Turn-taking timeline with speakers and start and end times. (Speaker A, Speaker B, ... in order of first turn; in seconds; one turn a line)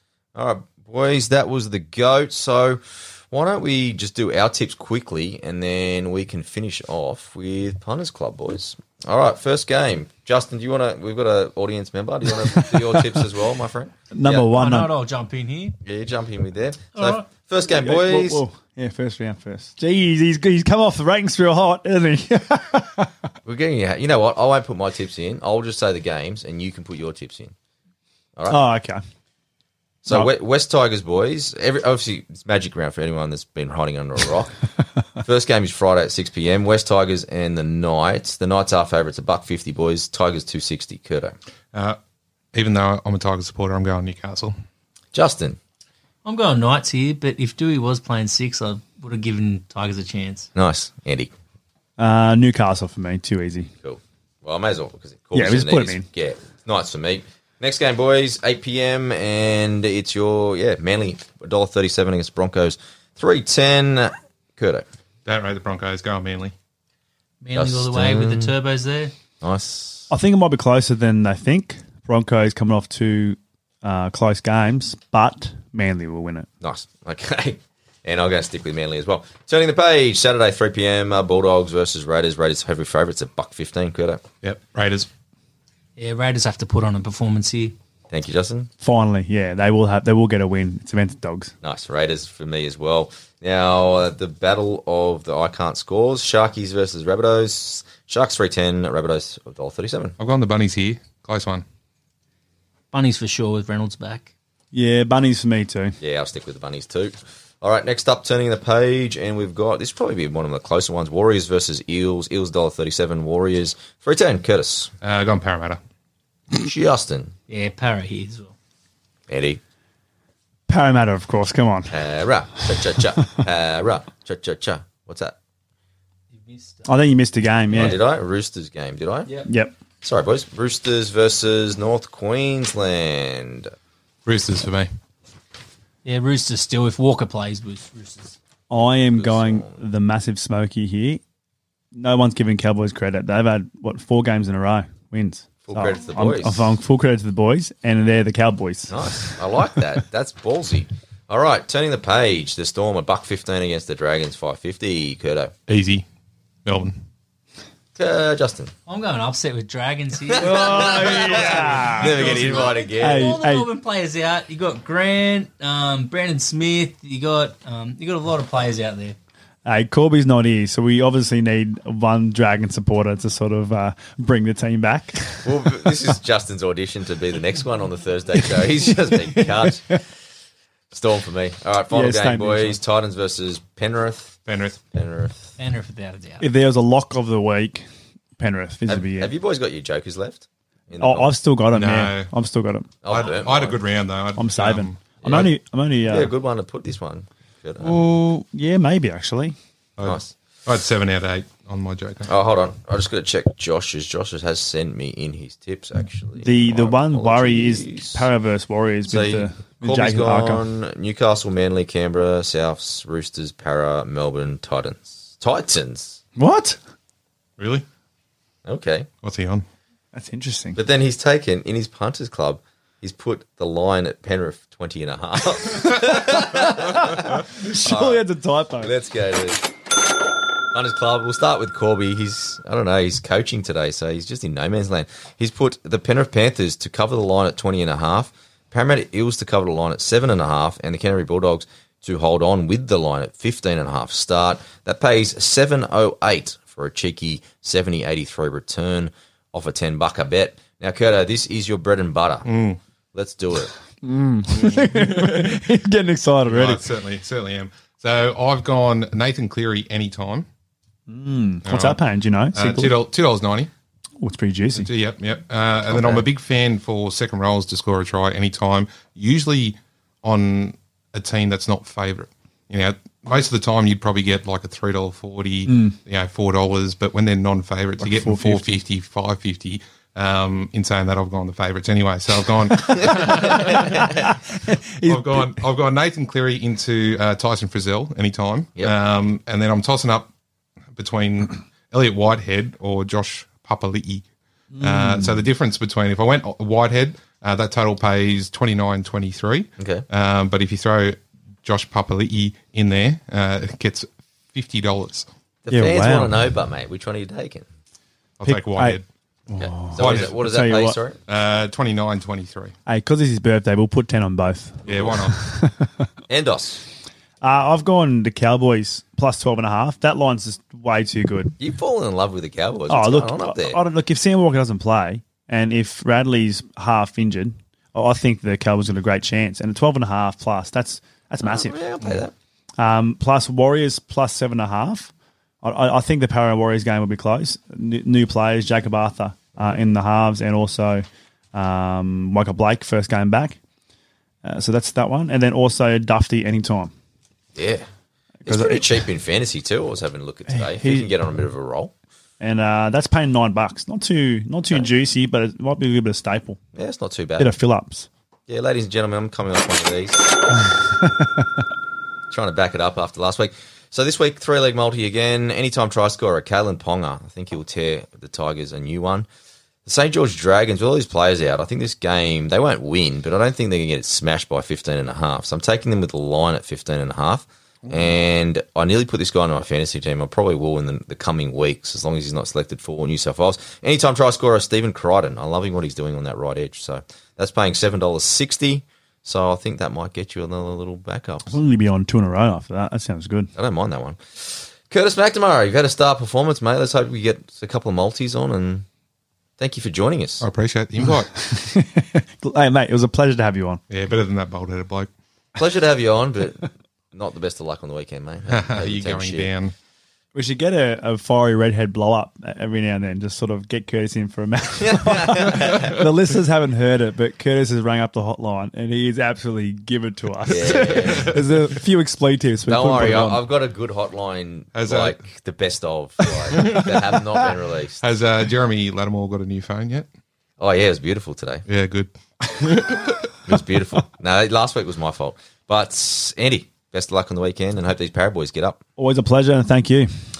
Speaker A: 0.3-14.5
Speaker B: 12.7-13.0
Speaker B: 14.1-14.9
Speaker C: 14.5-15.8
Speaker A: 15.8-18.4
Speaker C: 16.9-17.3
Speaker B: 17.6-23.1
Speaker A: 23.4-27.5
Speaker B: 28.5-29.0
Speaker A: 30.0-34.6
Speaker A: 35.2-41.4
Speaker D: 41.7-42.0
Speaker D: 42.5-44.5
Speaker A: 45.1-45.6
Speaker C: 46.2-50.5
Speaker A: 50.5-51.3
Speaker B: 52.0-53.7
Speaker A: 53.8-64.9
Speaker B: 55.3-56.1
Speaker D: 65.2-66.5
Speaker C: 67.4-69.1
Speaker A: 67.5-68.5
Speaker A: 69.4-70.1
Speaker B: 70.1-76.5
Speaker A: 76.6-84.2
Speaker D: 84.4-85.1
Speaker C: 86.0-87.8
Speaker A: 88.1-88.7
Speaker B: 88.8-91.5
Speaker A: 91.6-100.2
Speaker D: 100.2-101.6
Speaker C: 102.9-104.3
Speaker B: 104.7-106.0
Speaker A: 106.0-114.9
Speaker D: 115.0-115.8
Speaker A: 116.5-117.3
Speaker C: 117.5-118.5
Speaker A: 119.3-119.6
Speaker B: 120.7-122.0
Speaker A: 121.9-125.3
Speaker C: 126.3-127.0
Speaker B: 126.8-128.0
Speaker A: 127.7-129.3
Speaker B: 129.5-129.7
Speaker A: 130.0-133.7
Speaker D: 134.2-134.9
Speaker C: 136.0-138.4
Speaker B: 138.7-141.2
Speaker A: 138.8-139.8
Speaker B: 141.9-149.4
Speaker A: 145.7-146.8
Speaker A: 148.9-155.5
Speaker D: 155.7-156.1
Speaker D: 156.6-157.0
Speaker A: 157.9-158.7
Speaker C: 158.9-169.2
Speaker A: 160.3-163.4
Speaker B: 160.4-163.7
Speaker B: 169.7-175.9
Speaker A: 175.4-180.0
Speaker B: 179.3-180.0
Speaker A: 180.9-184.4
Speaker B: 181.9-182.8
Speaker D: 184.4-184.8
Speaker A: 184.9-185.5
Speaker C: 185.6-186.4
Speaker B: 186.4-187.8
Speaker B: 188.4-189.3
Speaker A: 188.9-191.3
Speaker B: 191.0-192.9
Speaker D: 191.7-192.3
Speaker A: 193.0-193.8
Speaker D: 193.1-195.0
Speaker B: 194.4-196.3
Speaker A: 195.2-195.5
Speaker A: 196.1-198.0
Speaker B: 197.8-199.6
Speaker D: 200.0-202.3
Speaker A: 200.0-200.3
Speaker A: 202.2-208.3
Speaker B: 206.4-210.6
Speaker A: 209.1-216.2
Speaker B: 216.3-216.8
Speaker D: 217.6-217.8
Speaker A: 218.6-219.1
Speaker D: 219.2-219.7
Speaker B: 220.1-220.8
Speaker A: 220.8-228.2
Speaker B: 226.0-228.9
Speaker A: 228.8-229.7
Speaker A: 230.7-252.5
Speaker D: 252.4-252.8
Speaker A: 253.1-253.7
Speaker B: 254.0-256.9
Speaker D: 254.5-255.3
Speaker D: 256.5-260.5
Speaker B: 261.1-262.9
Speaker D: 261.6-262.0
Speaker D: 262.5-263.7
Speaker B: 264.2-264.9
Speaker D: 264.8-284.2
Speaker B: 265.9-266.2
Speaker B: 275.7-276.0
Speaker B: 278.0-278.8
Speaker A: 283.5-284.1
Speaker B: 284.2-285.6
Speaker D: 285.0-290.3
Speaker D: 290.9-294.3
Speaker B: 294.7-295.5
Speaker D: 294.8-305.3
Speaker A: 299.8-300.1
Speaker A: 305.6-307.7
Speaker B: 305.7-306.4
Speaker D: 308.4-309.0
Speaker B: 308.4-311.0
Speaker A: 309.6-311.2
Speaker D: 310.0-310.3
Speaker D: 311.3-312.7
Speaker B: 312.9-316.0
Speaker A: 314.8-315.2
Speaker D: 314.8-315.4
Speaker A: 316.3-316.8
Speaker B: 317.4-321.6
Speaker A: 321.6-323.8
Speaker B: 322.9-332.2
Speaker A: 331.4-332.3
Speaker B: 332.8-343.6
Speaker B: 344.4-346.9
Speaker A: 347.5-347.9
Speaker B: 348.4-349.0
Speaker A: 348.4-351.9
Speaker B: 350.5-351.1
Speaker B: 352.4-356.6
Speaker A: 356.7-357.5
Speaker B: 357.4-358.1
Speaker A: 358.5-360.2
Speaker B: 360.6-361.4
Speaker A: 362.3-369.3
Speaker A: 369.8-391.5
Speaker B: 391.5-393.5
Speaker A: 393.5-398.9
Speaker A: 399.6-400.4
Speaker D: 400.4-401.3
Speaker B: 401.3-403.8
Speaker D: 403.9-405.1
Speaker A: 405.6-409.5
Speaker D: 408.5-409.7
Speaker B: 410.3-423.4
Speaker A: 414.8-416.0
Speaker A: 420.4-421.4
Speaker A: 422.7-428.0
Speaker D: 424.7-425.2
Speaker D: 426.5-427.2
Speaker D: 428.0-430.1
Speaker A: 430.6-431.6
Speaker D: 431.7-433.4
Speaker A: 433.4-438.8
Speaker B: 439.0-440.1